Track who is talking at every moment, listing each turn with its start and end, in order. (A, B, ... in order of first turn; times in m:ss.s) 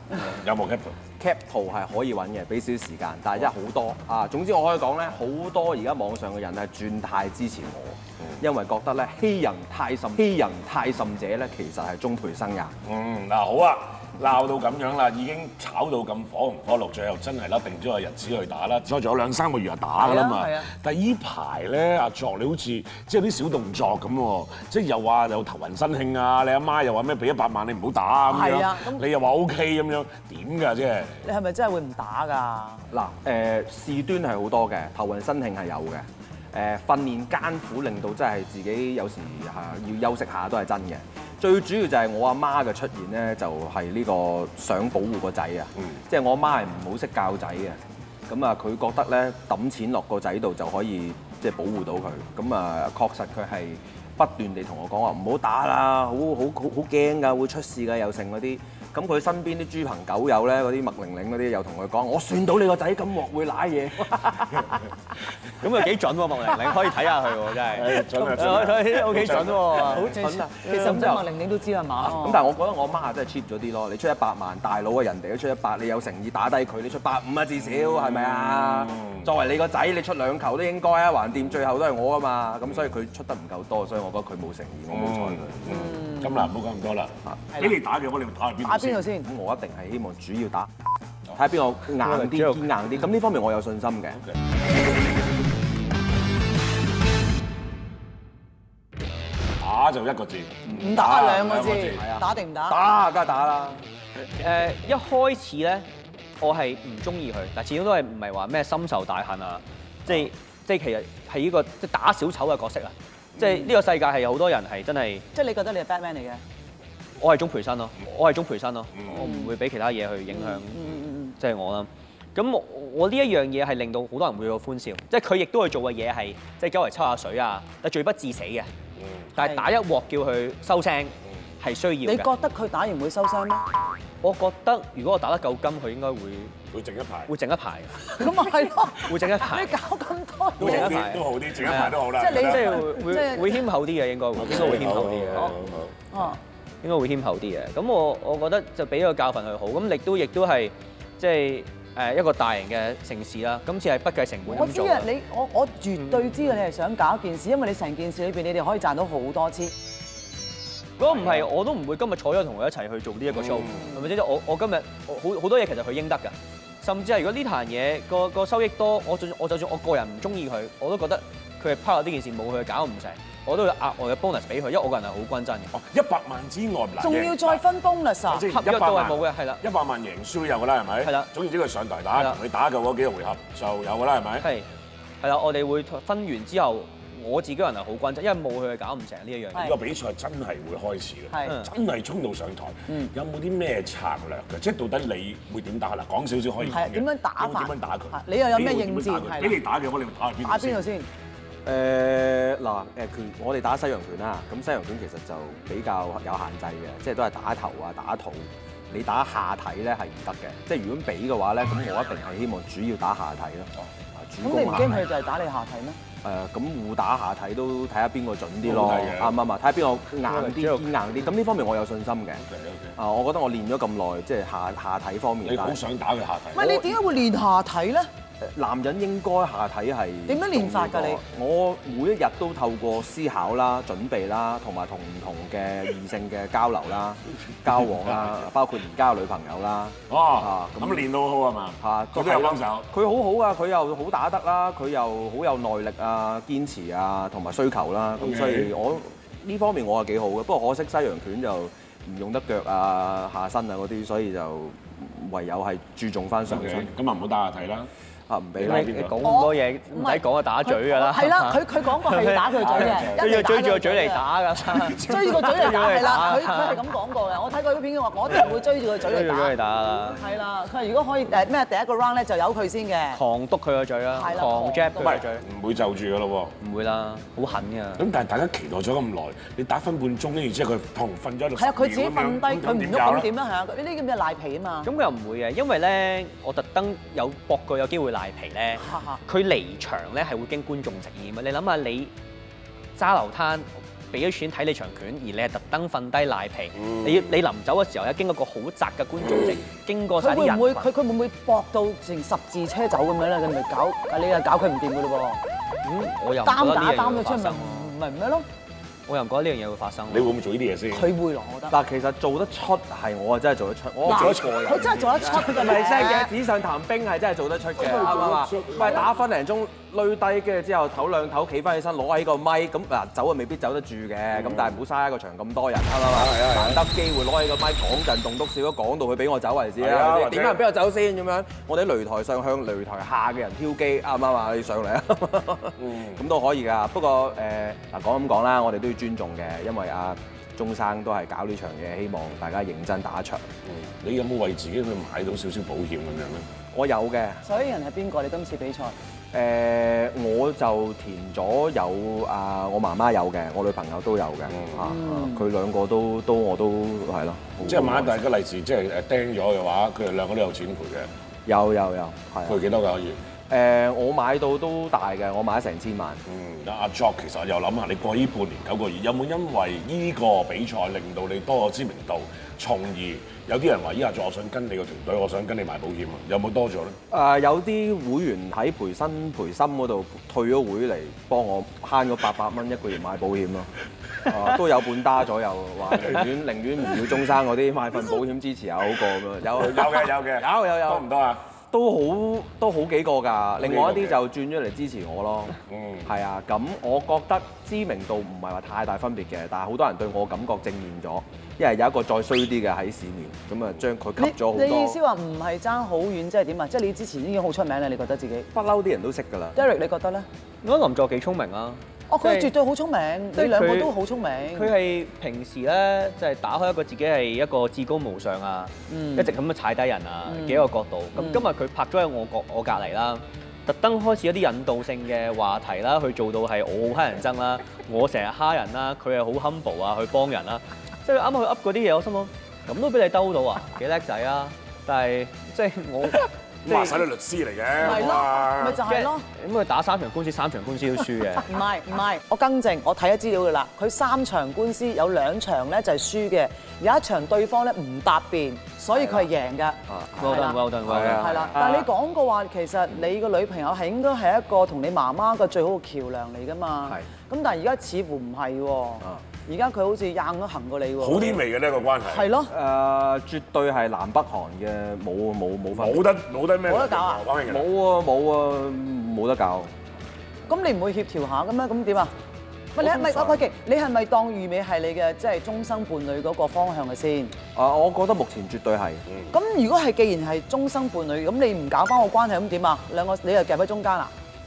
0:00.2-0:00.9 A
0:01.2-0:12.7 B
0:12.8-0:31.2 A
0:20.0-0:20.7 C
0:28.3-0:29.0 C
0:31.2-0:32.8 C
0:32.9-1:04.8 B
1:05.6-1:11.3 D
1:07.7-1:10.1 A
1:09.7-1:12.4 C
1:12.0-1:25.6 B
1:17.7-1:19.3 A
1:24.9-1:29.1 A
1:25.7-1:26.5 C
1:28.6-1:29.3 C
1:29.2-1:30.7 B
1:31.3-1:34.2 B
1:32.0-1:32.7 D
1:39.6-1:42.0 A
1:40.7-1:43.8 B
1:40.7-1:42.8 C
1:44.4-1:45.9 D
1:46.4-1:55.3 D
1:53.4-1:53.7 C
1:55.3-1:56.4 C
1:57.2-2:08.7 D
1:59.1-1:59.5 C
2:00.3-2:01.4 C
2:09.0-2:09.2 A
2:09.4-2:12.3 D
2:09.4-2:09.7 C
2:12.0-2:13.6 C
2:14.2-2:16.5 D
2:16.7-2:17.3 A
2:17.3-2:18.3 D
2:18.1-2:21.1 C
2:19.0-2:19.8 D
2:20.6-2:22.8 A
2:20.6-2:25.6 D
2:21.7-2:23.7 C
2:24.4-2:25.9 A
2:24.5-2:24.8 C
2:26.1-2:26.4 C
2:26.8-2:35.1 D
2:34.5-2:39.7 C
2:41.0-2:55.7 D
2:43.4-2:43.9 A
2:55.7-2:57.6 A
2:57.0-2:58.5 C
2:58.3-3:04.5 A
2:58.5-2:59.6 D
3:01.0-3:01.3 D
3:04.4-3:04.7 D
3:05.2-3:09.7 D
3:09.6-3:20.9 A
3:11.4-3:11.7 D
3:16.7-3:19.6 C
3:20.4-3:21.1 C
3:21.6-3:35.1 B
3:34.4-3:36.0 C
3:36.2-3:42.4 B
3:38.6-3:39.4 A
3:40.3-3:40.9 D
3:42.4-3:43.0 A
3:43.0-3:45.8 B
3:45.4-3:46.8 A
3:46.6-3:48.1 C
3:48.4-4:01.1 B
3:50.3-3:51.2 C
3:58.0-3:58.4 A
4:00.1-4:02.9 A
4:01.8-4:16.9 B
4:08.2-4:08.7 A
4:16.5-4:17.9 A
4:18.3-4:19.2 B
4:18.6-4:19.2 A
4:18.6-4:26.8 D
4:19.2-4:24.3 C
4:22.6-4:23.3 A
4:24.8-4:33.2 C
4:29.0-4:30.2 D
4:33.1-4:35.4 D
4:34.1-4:35.2 C
4:35.0-4:36.6 A
4:36.6-4:38.0 D
4:38.0-4:43.3 A
4:41.6-4:44.9 C
4:44.8-4:52.1 D
4:48.8-4:49.2 C
4:53.0-5:00.9 D
4:56.8-4:57.1 A
5:00.2-5:05.4 C
5:05.8-5:07.9 D
5:06.4-5:08.5 C
5:09.1-5:10.4 D
5:10.1-5:11.1 A
5:10.9-5:11.8 C
5:11.7-5:43.4 B
5:14.0-5:15.8 A
5:14.1-5:16.3 C
5:17.8-5:19.1 A
5:18.7-5:19.0 C
5:24.4-5:24.8 A
5:26.1-5:26.8 A
5:29.8-5:30.6 A
5:35.8-5:36.2 A
5:43.7-5:46.4 A
5:46.7-5:47.4 B
5:47.4-5:49.0 C
5:49.3-5:58.2 B
5:54.5-5:54.9 A
5:54.8-5:55.5 C
5:57.6-6:01.1 A
6:01.5-6:02.6 B
6:02.5-6:03.2 A
6:03.5-6:06.2 B
6:06.3-6:17.0 A
6:17.1-6:23.7 B
6:24.2-6:31.1 B
6:29.5-6:31.4 A
6:31.7-6:45.0 B
6:33.6-6:34.2 A
6:35.7-6:36.1 A
6:44.2-6:48.5 C
6:48.5-6:49.6 B
6:49.6-6:50.3 C
6:50.6-6:52.5 D
6:52.1-6:54.7 C
6:53.4-6:53.9 D
6:54.5-7:17.0 D
6:58.9-6:59.3 C
7:00.3-7:00.7 C
7:01.2-7:01.4 C
7:16.6-7:18.8 A
7:17.8-7:19.2 C
7:18.8-7:21.5 D
7:21.4-7:41.4 C
7:28.9-7:29.3 B
7:29.9-7:31.9 B
7:30.2-7:31.5 D
7:41.0-7:42.3 A
7:42.0-7:42.5 C
7:42.5-7:46.1 B
7:45.7-7:47.7 A
7:46.6-7:47.2 C
7:47.4-7:49.7 B
7:50.5-7:52.1 C
7:52.7-7:57.3 C
7:52.8-7:53.3 B
7:57.6-7:59.0 B
7:59.3-8:04.1 C